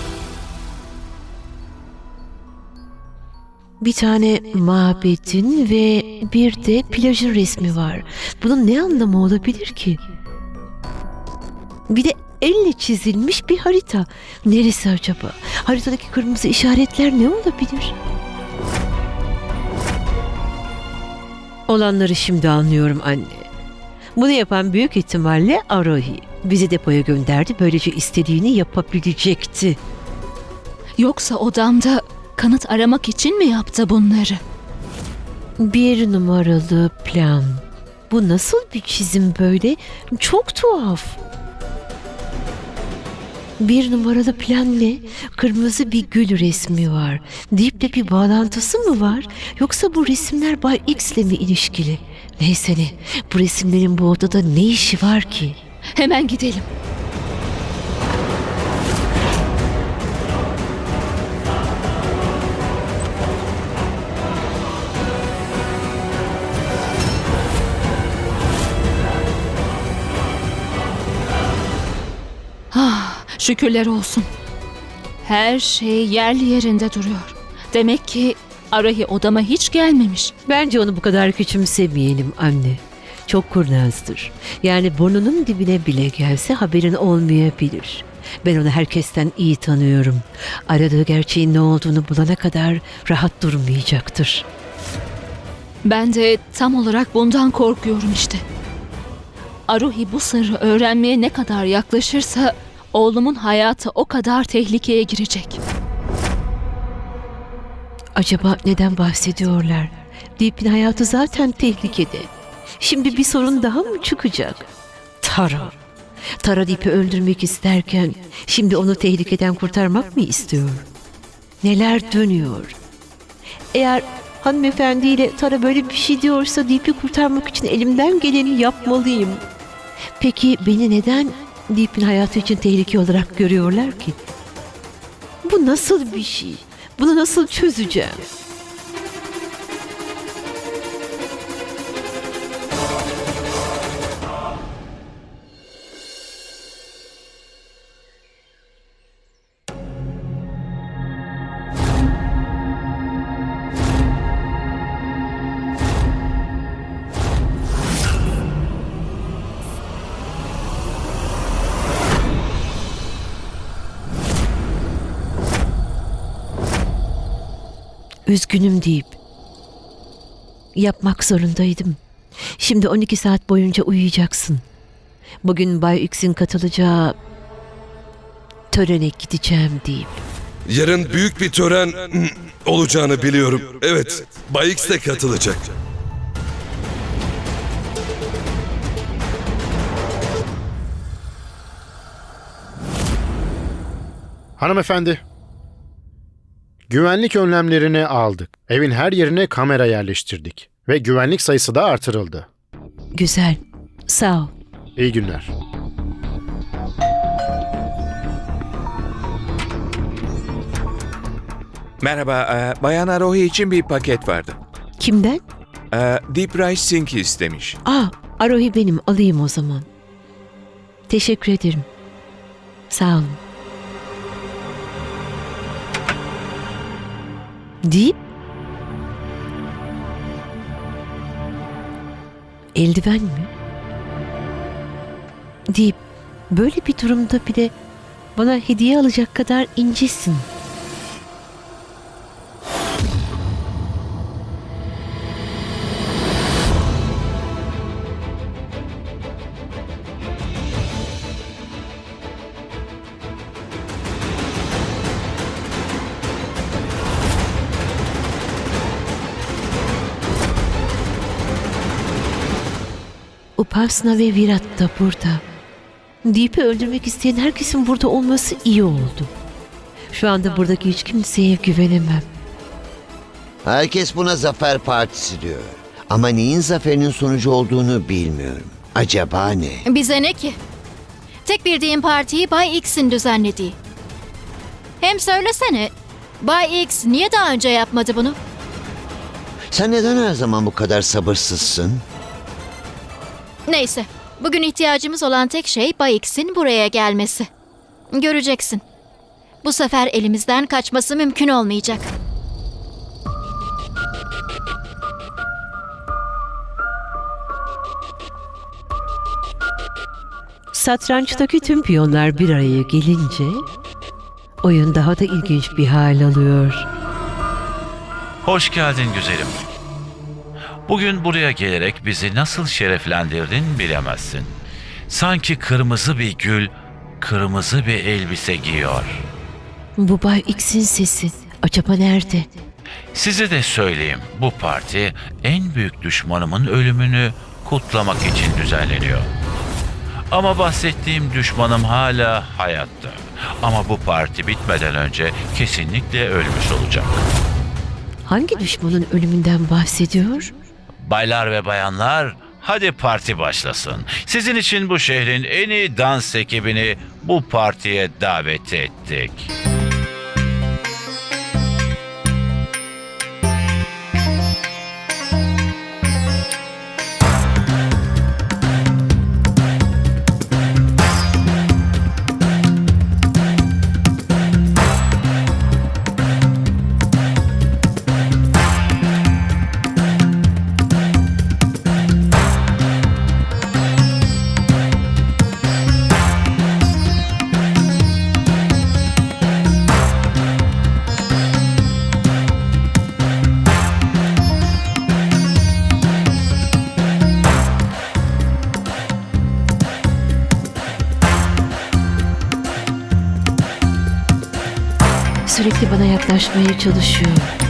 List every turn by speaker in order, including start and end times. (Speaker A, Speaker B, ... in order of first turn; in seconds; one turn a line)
Speaker A: 3.8-10.0
Speaker A: 11.9-17.9
Speaker A: 21.7-23.5
Speaker A: 24.1-29.8
Speaker B: 31.0-34.4
Speaker A: 35.6-41.2
Speaker A: 43.6-55.6
Speaker B: 56.0-56.7
Speaker B: 72.7-74.3
Speaker B: 75.2-80.3
Speaker A: 80.5-94.5
Speaker B: 95.8-98.4
Speaker B: 99.7-105.6
Speaker A: 108.2-114.7
Speaker A: 115.2-115.7
Speaker A: 116.4-120.8
Speaker A: 121.6-122.7
Speaker A: 123.7-129.4
Speaker A: 130.2-134.2
Speaker A: 135.4-138.3
Speaker A: 168.3-169.1
Speaker A: 170.7-172.0
Speaker A: 172.6-174.6
Speaker A: 175.4-177.1
Speaker A: 178.7-180.2
Speaker C: 180.7-185.7
Speaker D: 194.6-195.2
Speaker D: 196.9-202.5
Speaker A: 203.1-204.5
Speaker D: 205.0-205.5
Speaker E: 212.0-214.6
Speaker A: 215.0-215.4
Speaker E: 215.9-217.8
Speaker A: 217.8-219.8
Speaker A: 221.1-221.9
Speaker A: 222.9-223.4
Speaker A: 227.8-228.2
Speaker A: 232.7-233.5
Speaker A: 235.7-237.7
Speaker A: 238.3-240.4
Speaker A: 263.6-265.4
Speaker A: 266.2-269.3
Speaker A: 270.1-272.2
Speaker F: 273.6-279.8
Speaker G: 279.9-280.6
Speaker G: 281.5-283.8
Speaker G: 285.0-288.4
Speaker F: 289.7-292.0
Speaker G: 293.7-297.5
Speaker G: 298.1-298.8
Speaker G: 299.6-302.1
Speaker A: 310.7-313.6
Speaker A: 314.6-316.9
Speaker H: 318.4-319.7
Speaker H: 320.9-324.5
Speaker H: 325.1-329.2
Speaker A: 330.0-332.5
Speaker H: 333.1-339.3
Speaker H: 340.3-347.2
Speaker A: 348.3-350.5
Speaker H: 351.0-359.5
Speaker A: 405.5-407.5